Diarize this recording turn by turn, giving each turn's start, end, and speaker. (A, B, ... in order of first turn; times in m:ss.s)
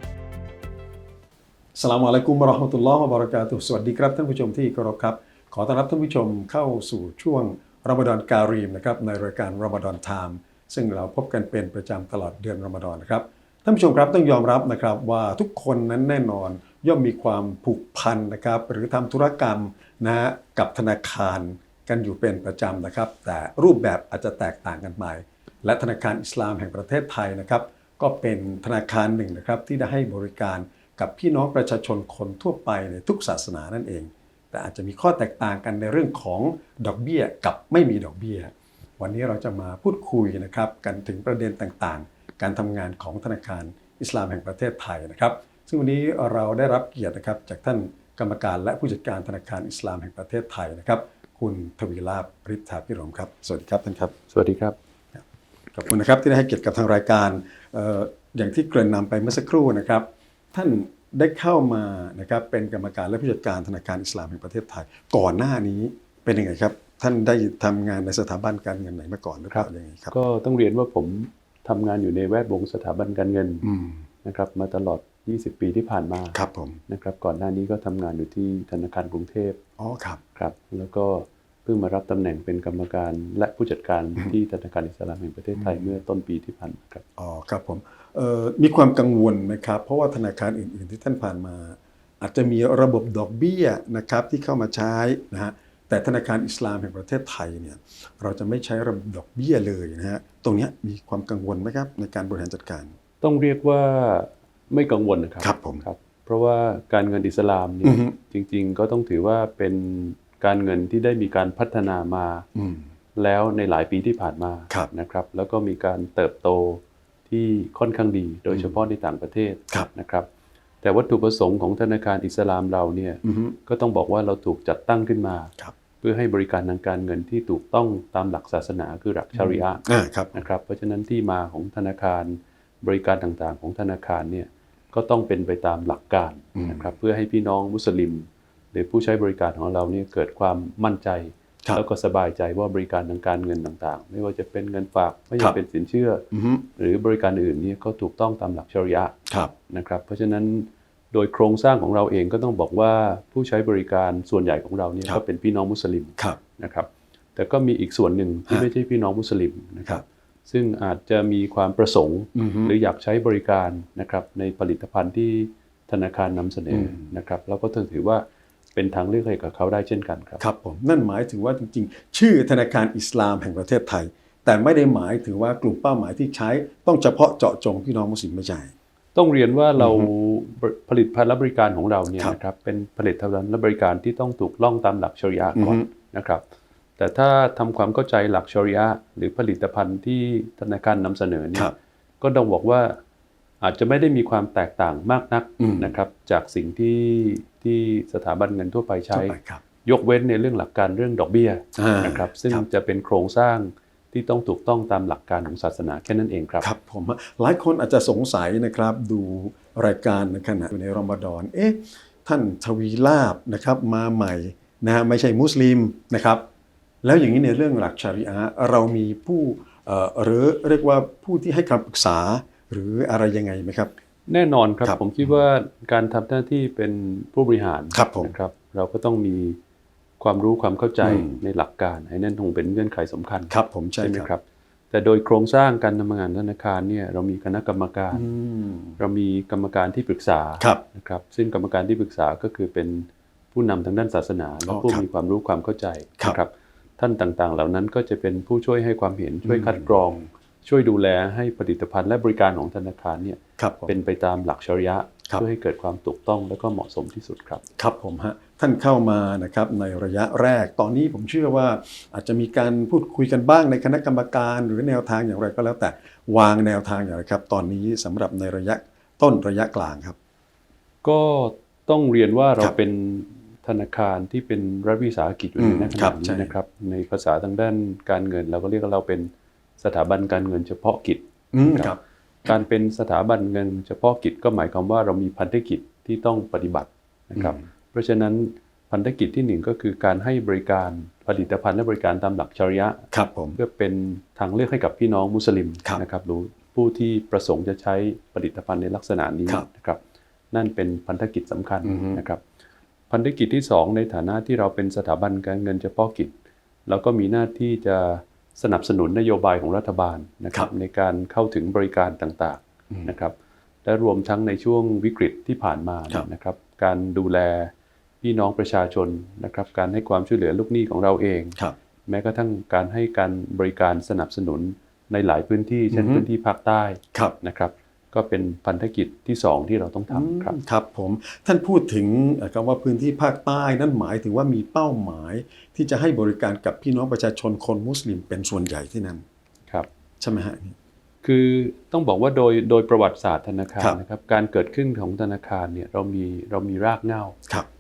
0:01.8-0:54.1 A
0:54.3-0:54.8 B
0:55.7-1:10.1 A
1:09.5-1:13.7 B
1:13.6-1:14.0 A
1:14.2-1:19.6 B
1:16.3-1:16.8 A
1:19.8-1:20.2 A
1:20.4-1:27.0 B
1:27.2-1:42.9 A
1:43.2-1:52.5 B
1:45.4-1:45.8 A
1:47.8-1:48.2 A
1:52.6-1:52.8 A
1:53.2-2:00.3 B
2:00.8-2:09.8 B
2:03.2-2:03.6 A
2:09.4-2:10.4 A
2:10.3-2:26.2 B
2:16.6-2:16.8 A
2:26.3-2:26.6 A
2:26.8-2:29.2 B
2:29.7-2:50.4 B
2:42.4-2:42.7 A
2:46.7-2:47.0 A
2:50.4-2:58.7 A
2:59.2-3:06.4 B
2:59.8-3:00.1 A
3:05.6-3:05.9 A
3:07.0-3:13.0 B
3:13.6-3:26.7 B
3:15.6-3:15.9 A
3:19.1-3:19.6 A
3:21.8-3:22.6 A
3:26.6-3:36.4 A
3:37.0-3:43.9 A
3:44.3-3:49.6 B
3:44.8-3:45.3 A
3:47.9-3:48.3 A
3:50.2-3:58.3 B
3:51.0-3:51.4 A
3:53.5-3:54.3 A
3:58.1-3:59.0 A
3:59.0-4:17.6 B
4:04.7-4:05.0 A
4:09.4-4:10.0 A
4:13.6-4:14.0 A
4:17.8-4:30.2 A
4:31.0-4:41.9 B
4:35.6-4:36.5 A
4:41.5-4:42.6 A
4:42.4-4:53.1 B
4:47.4-4:47.6 A
4:53.1-4:53.6 A
4:53.6-5:00.0 B
5:00.5-5:02.4 B
5:01.8-5:02.2 A
5:03.1-5:06.3 B
5:06.9-5:13.3 B
5:13.8-5:17.7 B
5:18.2-5:30.6 B
5:25.9-5:26.3 A
5:30.1-5:39.2 A
5:40.2-5:40.8 A
5:41.2-5:47.4 B